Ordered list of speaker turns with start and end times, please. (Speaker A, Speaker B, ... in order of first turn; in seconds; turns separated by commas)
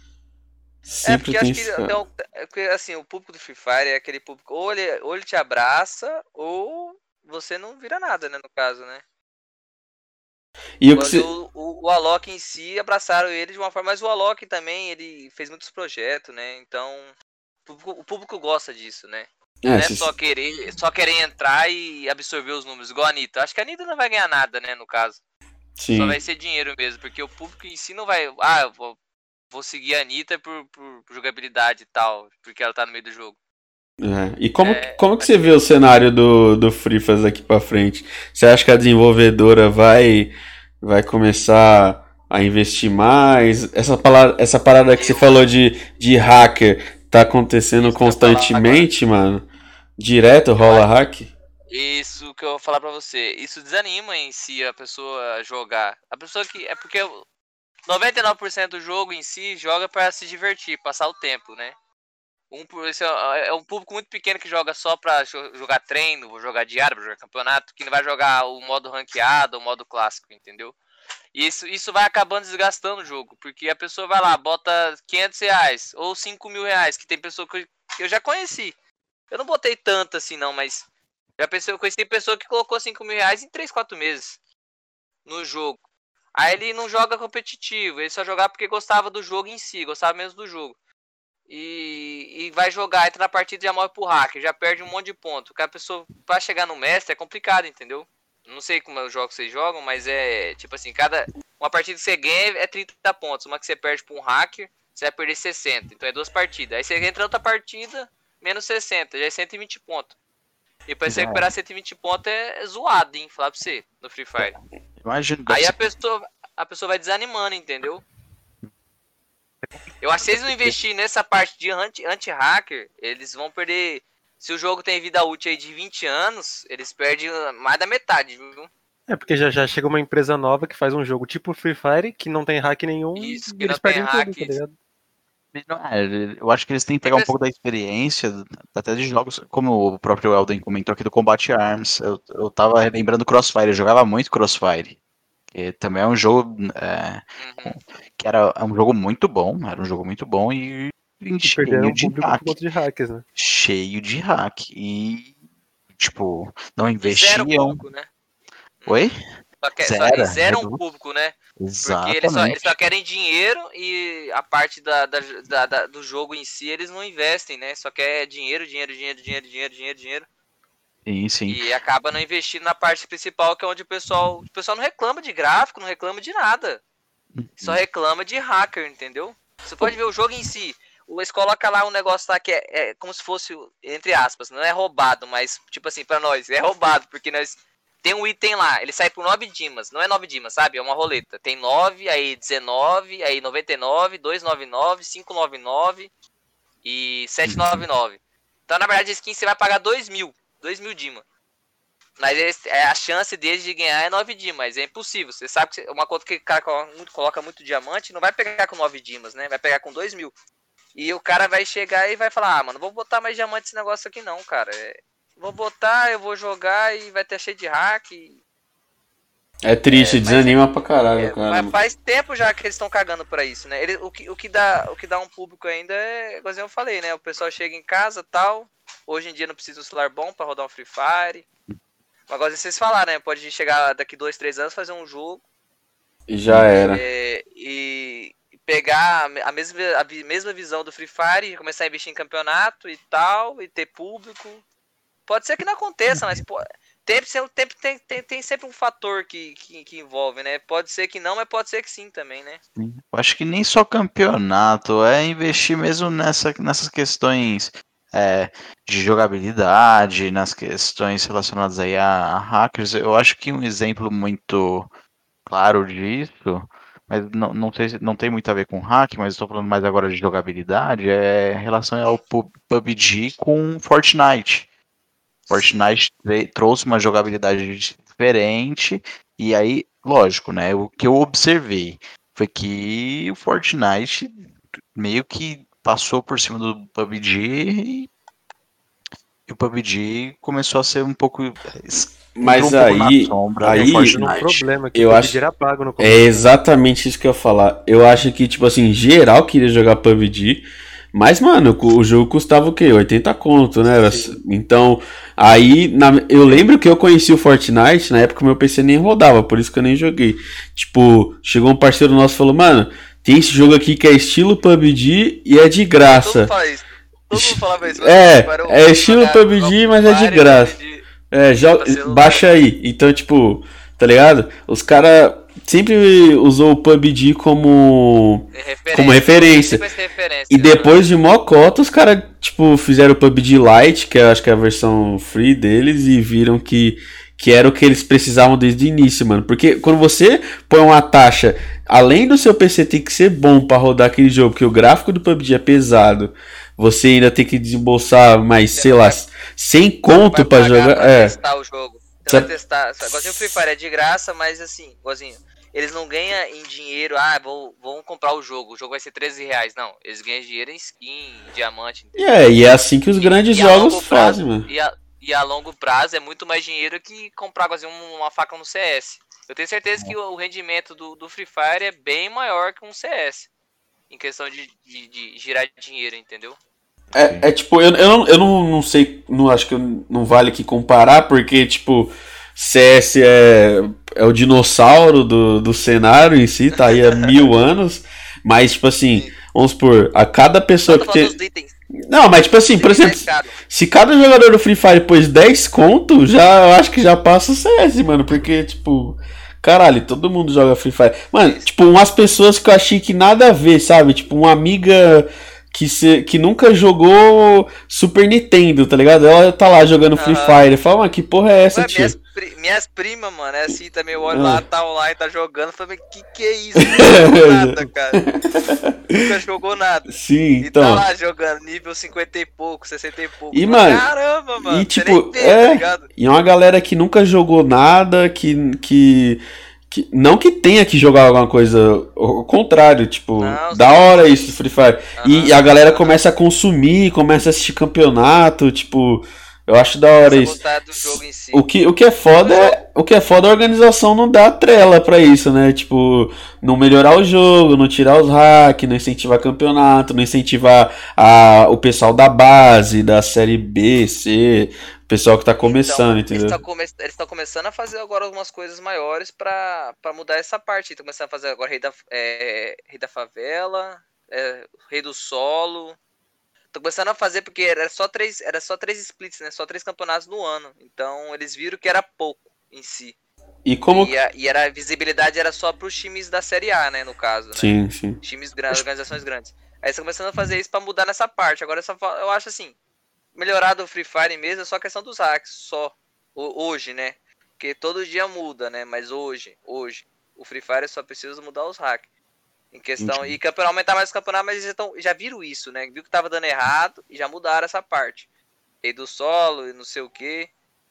Speaker A: 0.9-1.9, Speaker B: 1.0-9.0, Speaker A: 10.8-11.3, Speaker B: 10.9-17.1, Speaker B: 17.6-25.2, Speaker A: 19.6-20.1, Speaker A: 25.8-26.2, Speaker B: 25.9-29.0, Speaker B: 29.5-33.4, Speaker A: 34.0-49.5, Speaker B: 34.6-35.6, Speaker B: 44.9-45.4, Speaker B: 47.8-48.9, Speaker A: 50.0-51.3, Speaker B: 50.6-50.9, Speaker B: 51.7-57.2, Speaker B: 57.9-61.7, Speaker B: 62.5-70.8, Speaker B: 71.3-78.7, Speaker B: 79.3-80.8, Speaker B: 81.4-84.4, Speaker B: 85.2-85.8, Speaker B: 86.3-90.8, Speaker B: 91.5-110.1, Speaker B: 110.9-114.5, Speaker C: 111.1-111.5, Speaker C: 115.0-115.7, Speaker B: 115.5-118.0, Speaker B: 120.0-128.7, Speaker C: 120.2-120.7, Speaker D: 129.1-134.7, Speaker B: 133.1-134.6, Speaker C: 135.5-145.0, Speaker B: 137.0-137.3, Speaker C: 145.5-152.6, Speaker B: 147.4-147.8, Speaker D: 151.4-153.2, Speaker C: 153.3-155.3, Speaker C: 155.9-157.8, Speaker B: 157.0-158.1, Speaker B: 158.8-159.1, Speaker C: 158.8-159.2, Speaker B: 159.6-170.3, Speaker C: 159.8-160.8, Speaker C: 161.6-162.7, Speaker C: 171.0-171.6, Speaker B: 171.5-176.8, Speaker C: 177.3-177.8, Speaker B: 177.6-196.1, Speaker B: 196.8-201.2, Speaker C: 197.4-197.8, Speaker B: 202.2-210.3, Speaker B: 210.9-218.4, Speaker A: 219.6-221.7, Speaker B: 219.9-220.6, Speaker B: 221.2-231.4, Speaker B: 232.3-235.4, Speaker A: 236.3-237.0, Speaker B: 236.9-244.6, Speaker B: 245.3-252.6, Speaker C: 252.8-264.9, Speaker C: 265.4-274.7, Speaker B: 275.5-275.9, Speaker C: 275.5-288.1, Speaker C: 289.5-294.5, Speaker A: 292.3-295.4, Speaker D: 293.7-296.4, Speaker A: 296.0-316.5, Speaker D: 304.0-304.4, Speaker B: 315.9-321.1, Speaker A: 317.3-320.8, Speaker A: 321.3-329.8, Speaker B: 321.6-322.5, Speaker B: 328.5-331.0, Speaker A: 330.5-351.4, Speaker B: 348.7-349.2, Speaker B: 350.1-362.4, Speaker A: 353.0-353.5, Speaker A: 362.2-364.6, Speaker B: 363.2-373.5, Speaker B: 374.1-376.6, Speaker C: 377.1-377.4, Speaker A: 377.1-391.3, Speaker B: 386.9-387.3, Speaker B: 390.9-391.7, Speaker A: 392.1-412.1, Speaker B: 392.7-393.6, Speaker B: 401.4-401.7, Speaker B: 410.1-410.6, Speaker B: 411.7-418.2, Speaker A: 414.3-414.6, Speaker A: 416.8-419.2, Speaker B: 419.1-426.1, Speaker A: 420.1-421.0, Speaker A: 423.5-424.1, Speaker A: 424.6-456.6, Speaker B: 433.4-434.5, Speaker B: 435.1-436.1, Speaker B: 440.2-441.6, Speaker B: 442.3-442.8, Speaker B: 455.6-466.0, Speaker B: 466.7-473.1, Speaker A: 473.6-474.1, Speaker B: 473.9-482.7, Speaker A: 477.5-478.2, Speaker B: 483.3-492.1, Speaker B: 492.7-498.3, Speaker C: 493.0-493.3, Speaker B: 498.8-500.5